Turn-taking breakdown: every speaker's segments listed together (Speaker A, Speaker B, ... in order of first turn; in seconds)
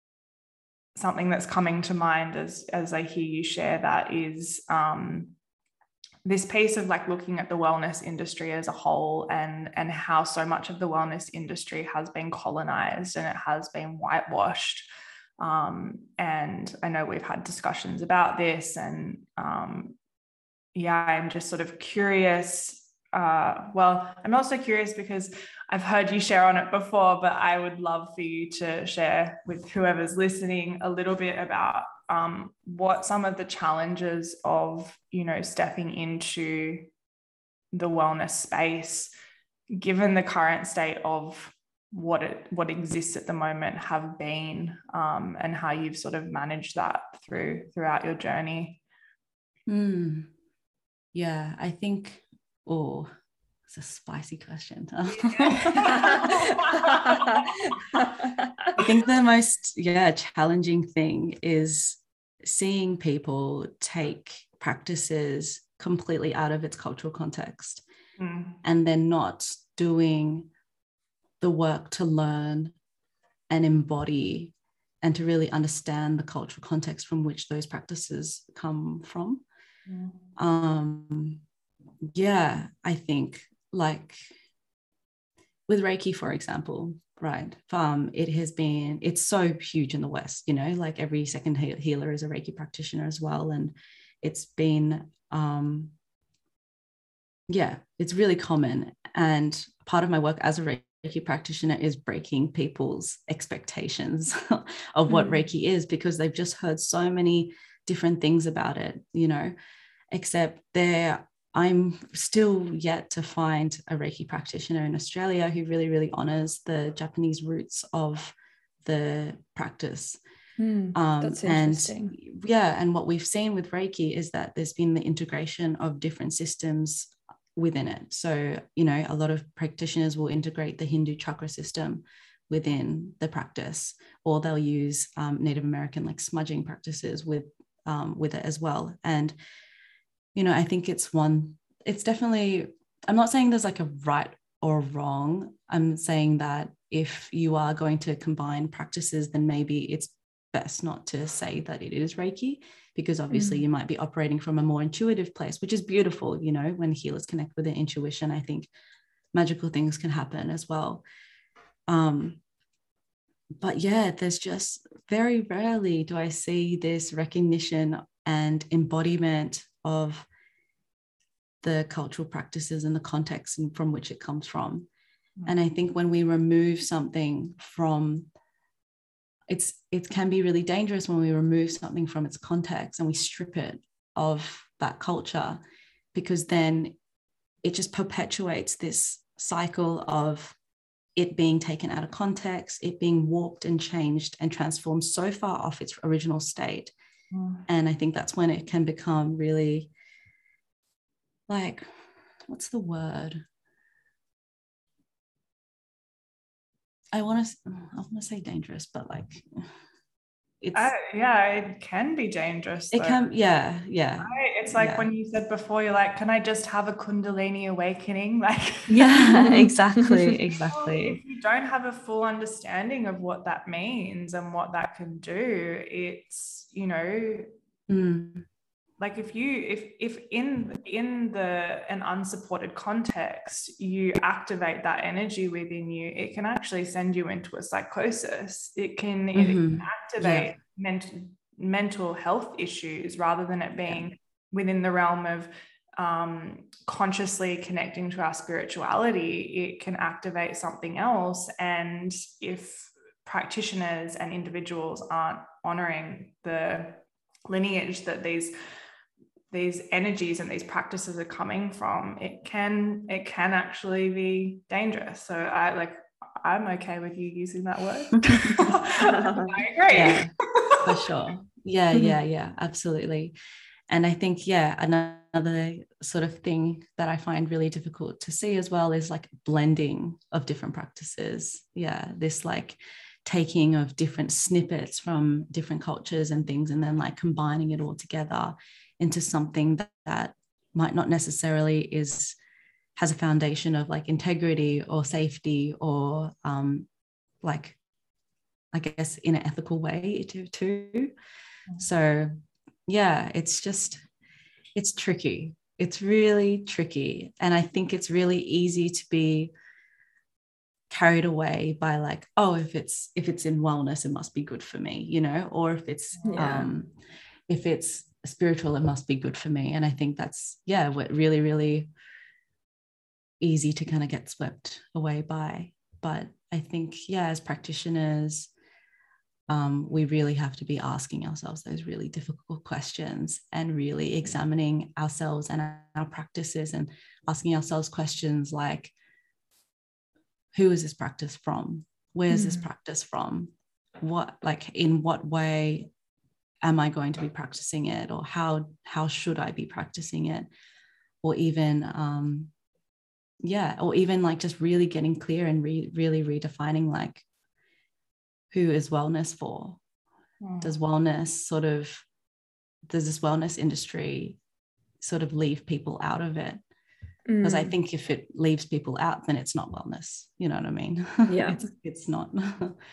Speaker A: 0.9-5.3, 6.2-14.9, 15.4-19.9, 20.7-36.9, 37.7-39.1, 39.7-48.8, 55.2-57.2, 68.2-68.6, 79.9-80.2, 197.3-197.7, 210.7-213.2, 214.2-219.7, 220.4-227.5, 229.0-258.5, 259.5-271.1, 360.4-360.8
Speaker B: 49.7-50.3, 51.1-53.1, 53.7-56.5, 58.7-67.8, 68.6-70.5, 71.4-72.7, 73.5-79.4, 80.3-81.4, 82.1-84.3, 85.7-95.9, 97.5-109.5, 110.1-120.2, 120.9-139.3, 140.3-158.7, 159.3-161.0, 161.9-162.4, 163.6-170.3, 171.6-174.9, 175.4-178.3, 179.5-185.6, 186.1-186.9, 187.6-190.6, 191.2-196.9, 197.7-199.9, 201.5-201.9, 202.5-203.4, 207.1-209.7, 210.6-210.9, 212.9-215.1, 218.9-221.2, 227.9-228.5, 239.3-240.5, 269.9-273.3, 273.9-292.4, 293.0-296.9, 297.4-297.8, 298.7-301.1, 301.8-302.3, 302.9-304.0, 304.7-309.5, 310.9-316.9, 317.5-321.9, 323.4-328.5, 329.5-338.9, 340.5-345.9, 346.6-350.5, 351.2-352.5, 353.4-357.2, 358.5-359.8, 360.6-362.1, 362.9-364.4, 365.0-366.6, 367.4-372.8
Speaker C: 56.1-56.4, 58.0-58.2, 120.6-122.2, 153.3-153.6, 219.3-220.3, 269.0-269.5, 316.3-316.7, 342.3-342.6, 367.3-367.7, 371.3-371.7